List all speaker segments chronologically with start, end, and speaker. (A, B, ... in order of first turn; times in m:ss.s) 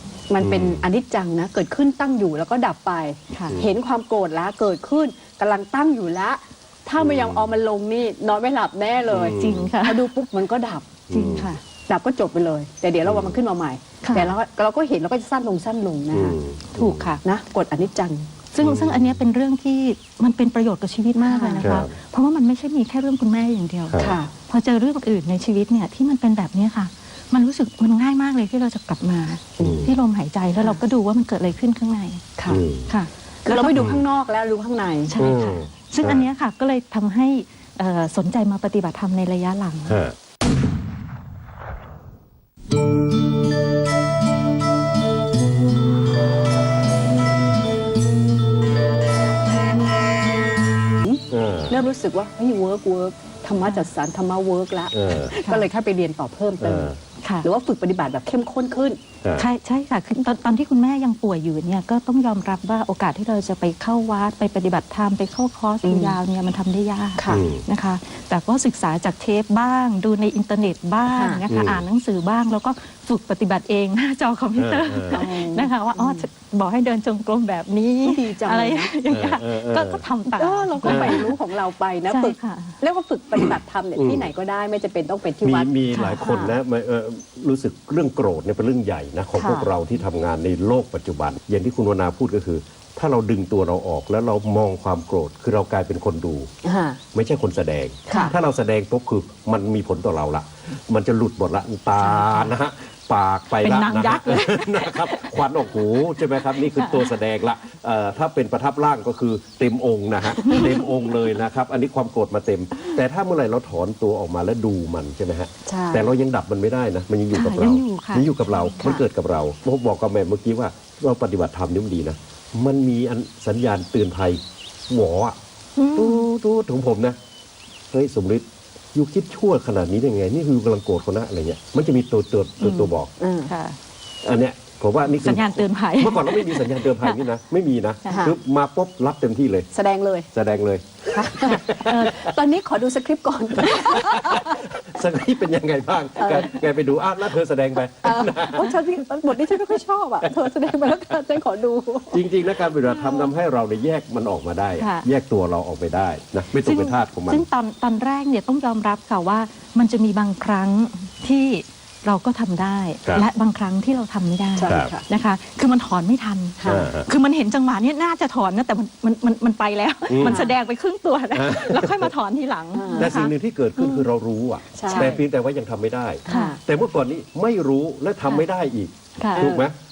0:00.3-0:11.0 A
0:00.4-0:00.8 B
0:03.3-0:03.6 C
0:07.0-0:07.6 B
0:09.1-0:09.7 B
0:09.2-0:10.2 C
0:11.1-0:11.5 B
0:11.1-0:11.6 C
0:11.7-0:16.4 A
0:13.0-0:13.4 B
0:14.0-0:14.4 C
0:16.1-0:17.1 B
0:16.7-0:17.2 C
0:17.2-0:18.3 A
0:18.5-0:32.3 C
0:18.6-0:19.2 B
0:21.2-0:21.8 A
0:21.6-0:21.9 B
0:23.9-0:24.2 B
0:24.0-0:24.3 A
0:29.6-0:29.8 A
0:29.6-0:29.9 B
0:32.4-0:32.6 A
0:32.5-0:32.9 B
0:32.9-0:33.9 C
0:33.4-0:35.1 A
0:33.8-0:34.0 B
0:35.1-0:40.0 C
0:35.2-0:36.3 B
0:39.9-0:40.2 B
0:51.0-0:59.0 A
0:51.3-0:51.8 B
0:54.9-0:55.4 B
0:55.1-0:55.7 C
0:56.6-0:57.0 B
0:57.2-0:57.5 C
0:59.2-0:59.5 B
0:59.4-1:21.4 C
1:05.8-1:06.2 A
1:07.2-1:07.5 A
1:07.3-1:07.6 B
1:11.1-1:11.4 A
1:11.5-1:11.8 B
1:14.6-1:15.2 B
1:15.1-1:16.3 A
1:18.0-1:18.9 A
1:19.1-1:20.0 B
1:20.3-1:26.6 A
1:20.8-1:21.3 B
1:22.0-1:22.8 C
1:24.0-1:24.3 B
1:25.4-1:36.5 B
1:25.9-1:26.5 C
1:29.3-1:29.7 A
1:36.6-1:37.0 A
1:37.1-2:05.4 B
1:38.1-1:38.4 A
1:42.0-1:42.6 C
1:43.5-1:47.2 C
1:50.4-1:50.9 C
1:55.7-1:56.1 A
1:57.3-1:58.8 C
1:58.8-1:59.0 A
2:05.8-2:06.3 C
2:06.0-2:07.2 B
2:07.9-2:13.1 B
2:12.6-2:13.8 C
2:13.2-2:13.5 A
2:14.2-2:19.7 B
2:15.1-2:17.2 C
2:18.1-2:18.4 A
2:19.7-2:20.3 A
2:20.3-2:22.3 B
2:21.1-2:24.6 A
2:21.4-2:22.2 C
2:23.6-2:28.8 B
2:26.2-2:26.5 A
2:28.0-2:33.3 A
2:30.8-2:31.1 B
2:32.1-2:37.4 B
2:34.8-2:35.1 C
2:36.6-2:54.1 C
2:44.6-2:45.0 A
2:44.7-2:44.9 B
2:46.6-2:46.9 A
2:46.7-2:47.1 B
2:50.1-2:50.4 B
2:50.2-2:50.6 A
2:51.3-2:52.1 B
2:52.7-2:53.2 A
2:53.0-2:59.7 B
2:54.8-2:55.2 A
2:54.8-2:55.2 C
2:56.3-2:56.6 A
2:56.3-2:56.6 C
2:59.2-2:59.5 C
2:59.4-2:59.7 A